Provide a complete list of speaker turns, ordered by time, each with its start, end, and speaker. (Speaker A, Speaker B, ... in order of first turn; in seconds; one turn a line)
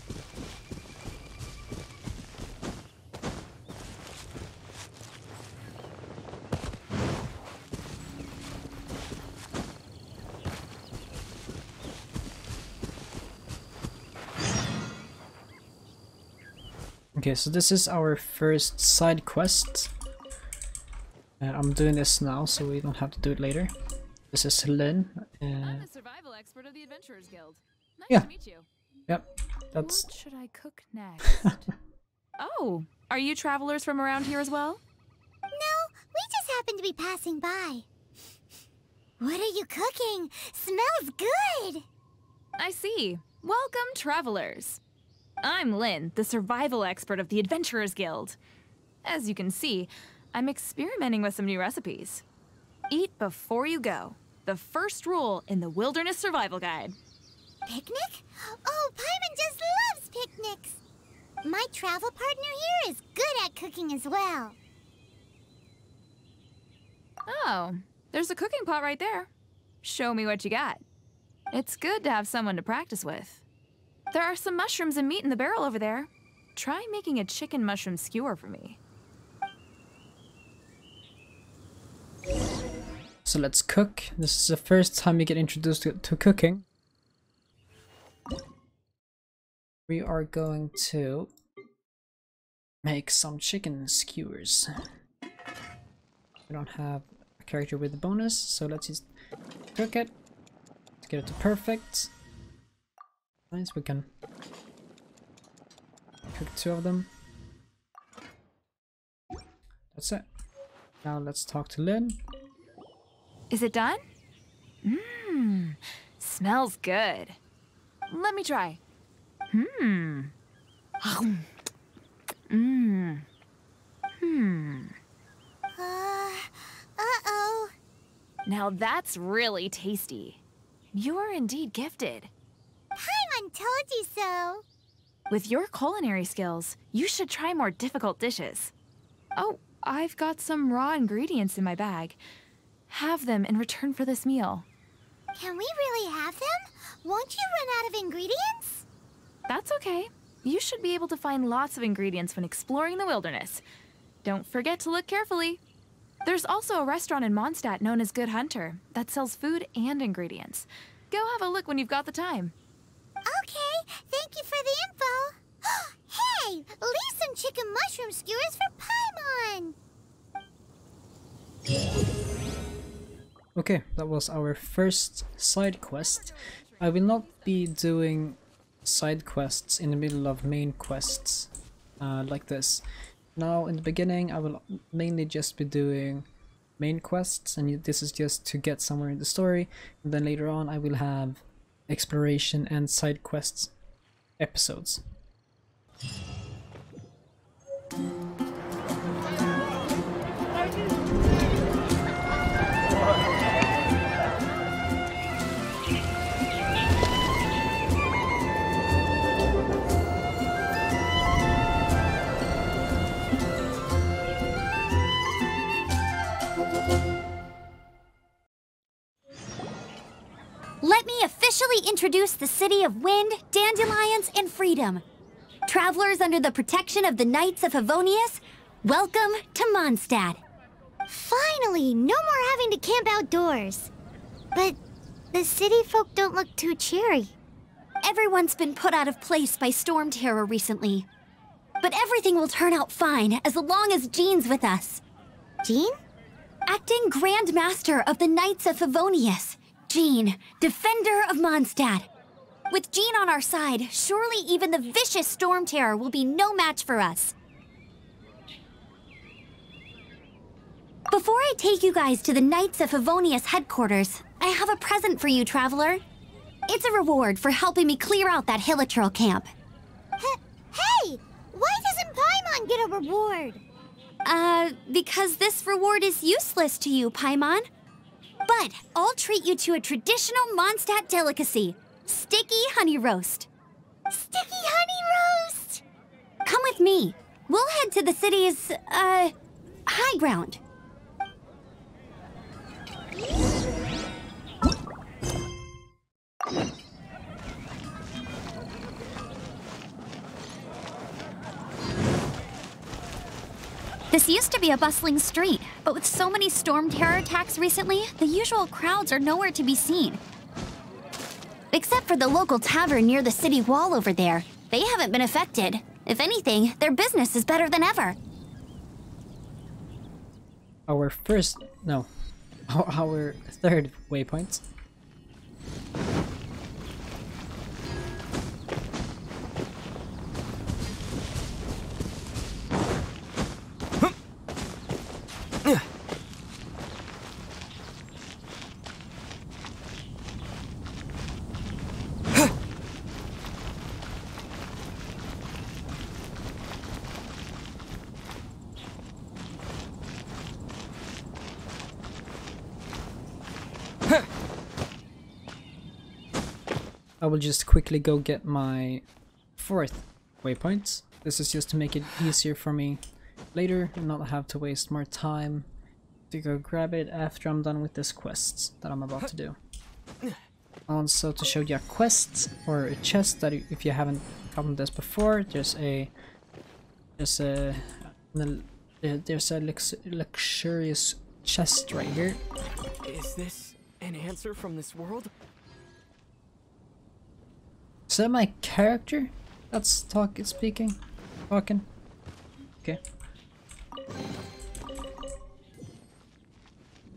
Speaker A: 17.2-19.9
Speaker A: 21.4-23.7
Speaker A: 24.3-25.9
Speaker B: 25.6-28.7
Speaker A: 29.1-30.1
Speaker B: 29.8-31.7
Speaker A: 31.2-31.6
Speaker B: 32.4-34.8
Speaker C: 35.5-37.9
Speaker C: 39.2-41.9
Speaker B: 42.6-44.8
Speaker B: 45.4-48.4
Speaker B: 49.0-52.2
Speaker B: 52.9-57.0
Speaker C: 57.7-60.8
Speaker C: 61.4-64.6
Speaker B: 67.3-69.3
Speaker B: 69.8-70.8
Speaker B: 71.5-73.4
Speaker B: 74.1-78.8
Speaker A: 83.2-86.6
Speaker A: 89.9-91.3
Speaker A: 92.8-94.7
Speaker A: 96.5-99.0
Speaker A: 99.8-100.1
Speaker A: 101.0-102.1
Speaker A: 103.5-104.1
Speaker A: 106.3-107.1
Speaker A: 109.9-110.2
Speaker A: 111.0-112.2
Speaker B: 113.5-114.0
Speaker B: 114.8-117.4
Speaker B: 118.1-118.8
Speaker B: 119.5-120.3
Speaker B: 121.0-121.5
Speaker B: 122.5-123.3
Speaker B: 124.2-125.0
Speaker C: 125.8-127.7
Speaker B: 128.5-130.4
Speaker B: 130.9-132.3
Speaker C: 133.0-134.7
Speaker B: 135.3-138.7
Speaker B: 139.4-142.2
Speaker B: 142.9-144.7
Speaker C: 145.3-148.8
Speaker B: 149.5-153.6
Speaker B: 154.2-155.6
Speaker B: 156.2-162.5
Speaker C: 163.2-169.8
Speaker A: 173.6-181.5
Speaker B: 175.8-177.7
Speaker A: 182.0-182.8
Speaker A: 183.4-186.3
Speaker A: 186.8-193.7
Speaker A: 194.4-195.0
Speaker D: 220.8-225.0
Speaker D: 225.7-230.4
Speaker C: 231.1-233.9
Speaker C: 235.3-237.3
Speaker D: 238.0-241.1
Speaker D: 241.8-245.0
Speaker C: 245.6-246.0
Speaker D: 246.7-252.1
Speaker D: 252.7-257.4
Speaker D: 261.1-266.0
Speaker D: 266.7-269.5
Speaker C: 270.2-273.6
Speaker D: 274.2-277.7
Speaker D: 278.5-283.5
Speaker C: 284.1-285.8
Speaker D: 286.4-289.3
Speaker D: 289.9-290.6
Speaker D: 304.1-310.2
Speaker D: 311.7-318.2
Speaker A: 320.9-322.1
Speaker A: 322.7-324.6
Speaker A: 357.2-359.0
Speaker A: 359.6-363.0
Speaker A: 363.5-365.7
Speaker A: 366.3-369.6
Speaker A: 370.9-376.1
Speaker A: 377.2-382.4
Speaker E: 383.0-385.3
Speaker A: 388.1-391.0
Speaker A: 391.5-391.9